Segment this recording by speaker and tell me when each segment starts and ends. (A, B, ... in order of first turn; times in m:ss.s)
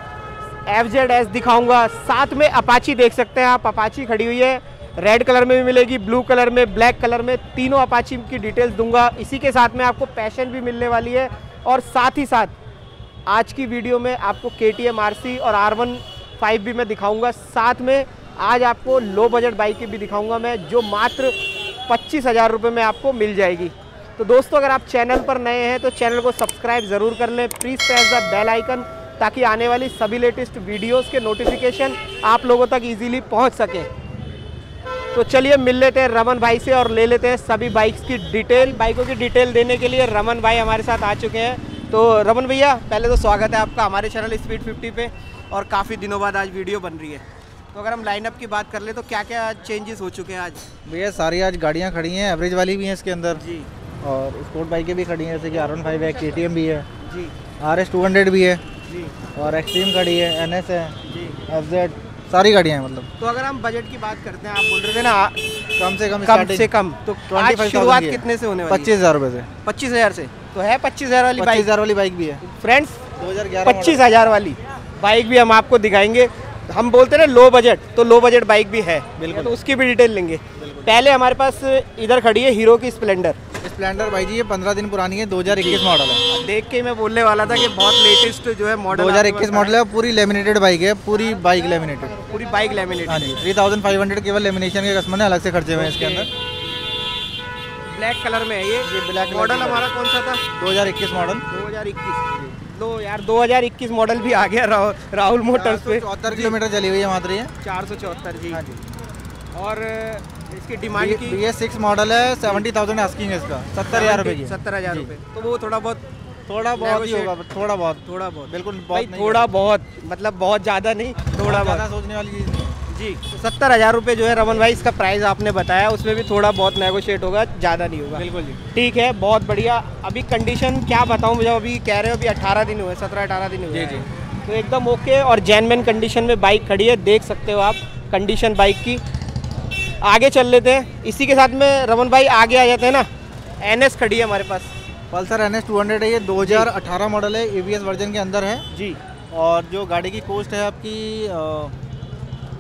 0:00.7-0:12.5 A
0:13.3-0:21.4 A
0:21.9-0:33.9 A
0:35.1-0:50.6 A
0:50.9-0:53.4 B
0:53.4-0:53.7 A
0:54.0-0:56.8 B
0:57.0-0:57.3 A
0:57.6-0:58.6 B
0:58.9-0:59.1 A
0:59.3-1:00.9 B
1:01.0-1:01.4 A
1:01.5-1:03.1 B
1:03.2-1:05.5 A
1:05.8-1:06.7 B
1:06.2-1:08.9 A
1:07.3-1:09.5 B
1:09.6-1:11.7 A
1:11.4-1:12.4 B
1:12.4-1:13.0 A
1:13.2-1:14.0 B
1:13.6-1:23.4 A
1:19.2-1:19.6 B
1:20.6-1:21.0 B
1:23.6-1:26.2 B
1:25.5-1:29.8 A
1:27.4-1:27.7 B
1:28.9-1:32.2 B
1:32.2-1:33.4 A
1:33.0-1:36.3 B
1:35.7-1:36.3 A
1:37.9-1:40.4 A
1:38.8-1:39.9 B
1:40.5-1:41.4 B
1:41.5-1:42.2 A
1:42.3-1:42.6 B
1:42.7-1:46.6 A
1:45.5-1:47.5 B
1:47.6-1:48.6 A
1:48.5-1:48.8 B
1:49.5-1:51.4 A
1:51.0-1:55.1 B
1:53.9-1:56.0 A
1:56.5-1:59.5 B
1:56.8-1:57.3 A
1:58.0-2:01.8 A
2:01.3-2:02.8 B
2:02.9-2:19.0 A
2:08.1-2:08.6 B
2:13.7-2:14.1 B
2:20.0-2:23.1 A
2:23.6-2:24.7 A
2:25.1-2:28.6 B
2:26.4-2:26.7 A
2:28.7-2:29.0 A
2:29.3-2:31.7 B